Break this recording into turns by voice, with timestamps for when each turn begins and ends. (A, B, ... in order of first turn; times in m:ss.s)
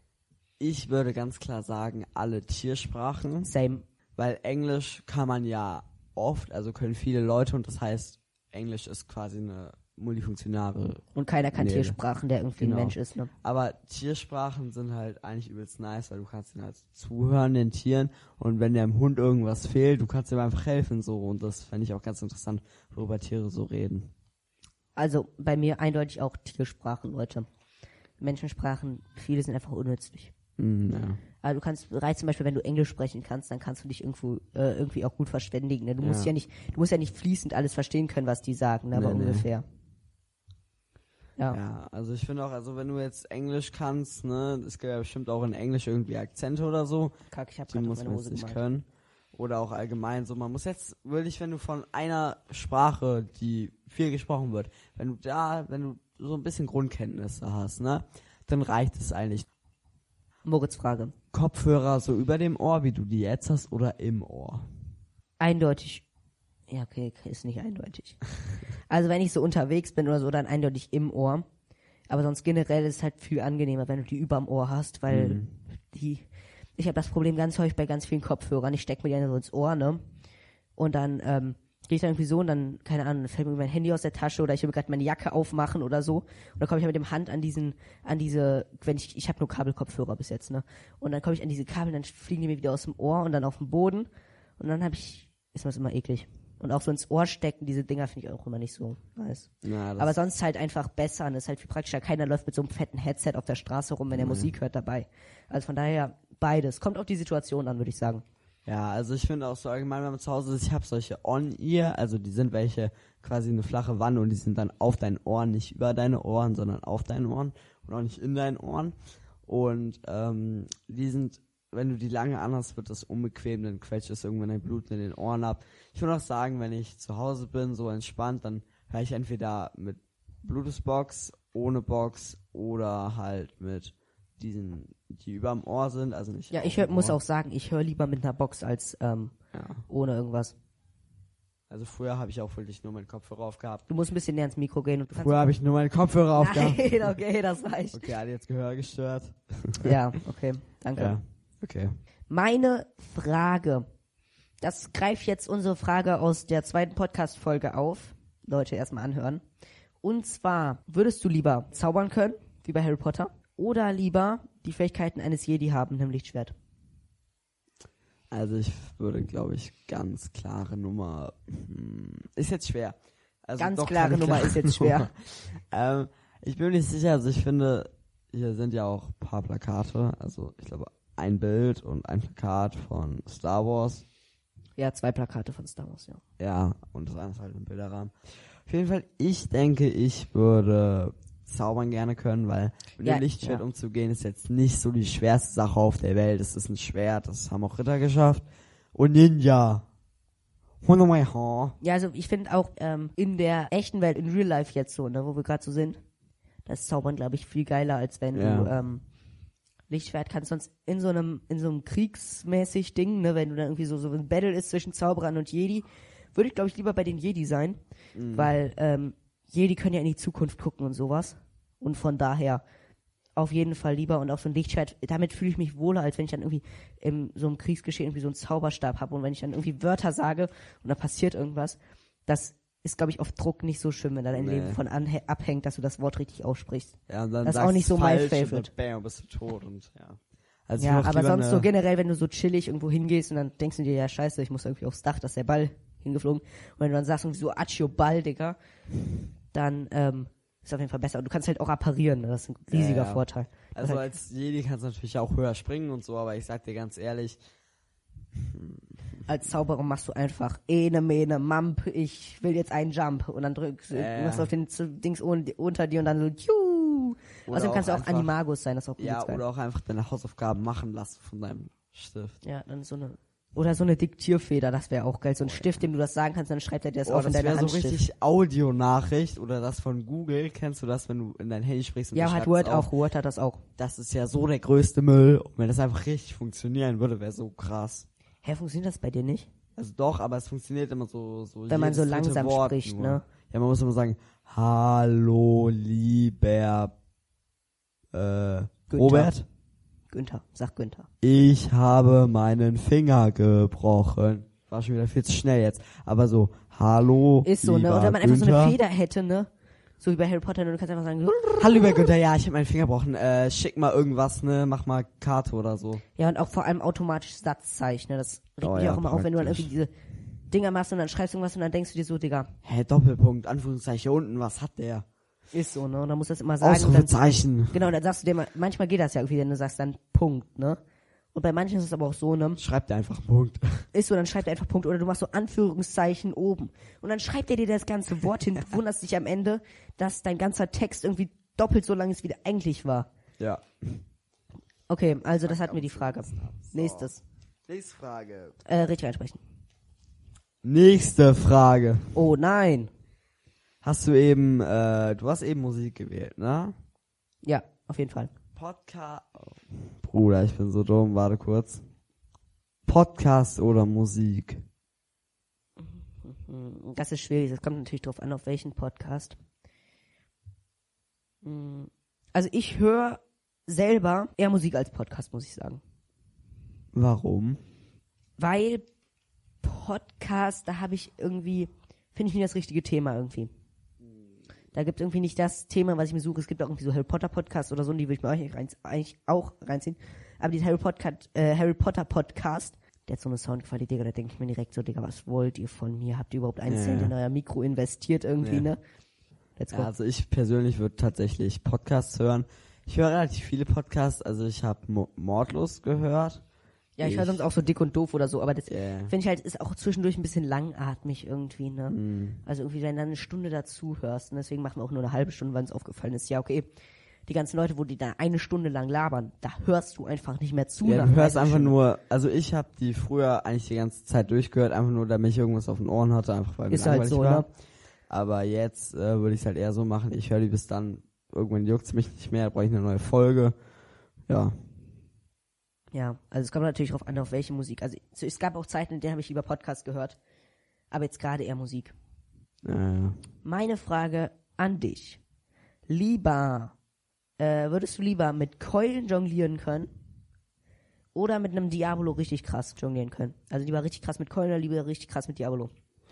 0:00.6-0:03.5 A
0:03.4-0:03.8 B
0:04.2-0:11.0 A
0:11.2-0:13.3 B
0:11.6-0:12.0 A
0:12.6-0:24.1 A
0:25.0-0:27.5 B
0:28.2-0:30.3 B
0:30.6-0:31.2 A
0:31.4-0:39.6 B
0:36.0-0:36.3 A
0:38.9-0:39.5 A
0:41.5-0:47.2 A
0:47.3-0:48.6 B
0:47.7-0:59.5 A
1:00.4-1:01.2 B
1:01.3-1:04.6 A
1:05.4-1:06.0 B
1:06.7-1:08.2 B
1:08.9-1:11.5 B
1:12.1-1:16.3 B
1:15.1-1:15.5 A
1:16.8-1:20.0 B
1:20.8-1:34.1 B
1:34.6-1:48.2 B
1:39.6-1:40.2 A
1:44.1-1:44.5 A
1:48.7-1:59.0 A
1:59.5-2:17.2 A
2:16.5-2:19.3 B
2:19.5-2:19.8 A
2:19.9-2:20.6 B
2:21.7-2:23.8 A
2:23.9-2:25.6 B
2:25.1-2:27.2 A
2:26.4-2:28.1 B
2:27.9-2:30.0 A
2:29.8-2:31.2 B
2:31.0-2:31.9 A
2:32.3-2:33.9 B
2:34.6-2:39.4 B
2:40.0-2:46.5 B
2:48.3-2:53.0 A
2:53.5-3:04.0 A
2:53.6-2:55.1 B
3:04.8-3:06.2 B
3:06.4-3:08.1 A
3:08.7-3:19.8 A
3:13.0-3:13.6 B
3:20.8-3:21.8 A
3:21.8-3:26.0 B
3:26.7-3:29.0 B
3:28.3-3:28.7 A
3:29.9-3:37.8 B
3:38.2-3:38.5 A
3:38.3-3:42.6 B
3:43.4-3:58.7 B
3:54.3-3:54.8 A
3:57.1-4:01.7 A
4:00.8-4:08.6 B
4:09.5-4:14.1 B
4:12.7-4:17.4 A
4:18.4-4:18.8 A
4:19.3-4:29.4 B
4:23.9-4:24.5 A
4:27.5-4:28.3 A
4:29.0-4:32.4 A
4:32.4-4:38.0 B
4:35.4-4:35.8 A
4:37.0-4:42.9 A
4:42.1-4:43.6 B
4:43.8-4:48.1 A
4:48.4-4:49.5 B
4:49.8-4:56.9 A
4:51.7-4:53.2 B
4:58.1-4:59.5 A
4:58.9-4:59.3 B
5:00.1-5:01.1 B
5:01.2-5:08.8 A
5:07.4-5:09.5 B
5:10.0-5:12.1 B
5:11.6-5:16.0 A
5:16.2-5:19.9 B
5:18.6-5:19.7 A
5:20.5-5:22.5 B
5:22.6-5:25.0 A
5:25.5-5:30.8 B
5:26.6-5:27.8 A
5:31.3-5:32.6 B
5:32.6-5:33.9 A
5:33.9-5:43.1 B
5:43.4-5:44.0 A
5:44.9-5:47.2 B
5:45.4-5:47.1 A
5:47.7-5:48.6 A
5:48.6-5:49.4 B
5:50.6-5:52.1 A
5:52.2-5:52.9 B
5:53.8-5:56.7 A
5:57.4-5:58.3 B
5:58.6-6:01.8 A
6:02.9-6:04.6 A
6:05.8-6:09.4 B
6:11.4-6:15.8 B
6:16.9-6:17.6 A
6:18.4-6:18.8 B
6:19.6-6:23.5 B
6:24.7-6:38.8 B
6:36.7-6:37.1 A
6:38.4-6:38.7 A
6:39.6-6:39.9 B
6:39.7-6:46.4 A
6:47.0-6:56.7 B
6:47.0-6:47.4 A
6:48.7-6:49.1 A
6:51.9-6:52.4 A
6:57.3-7:01.8 B
7:00.8-7:07.5 A
7:06.7-7:07.5 B
7:08.1-7:13.6 A
7:14.3-7:14.6 A
7:15.9-7:20.2 B
7:20.9-7:21.9 B
7:22.6-7:23.2 A
7:23.4-7:25.2 B
7:25.9-7:26.8 B
7:27.4-7:29.9 B
7:31.2-7:35.7 B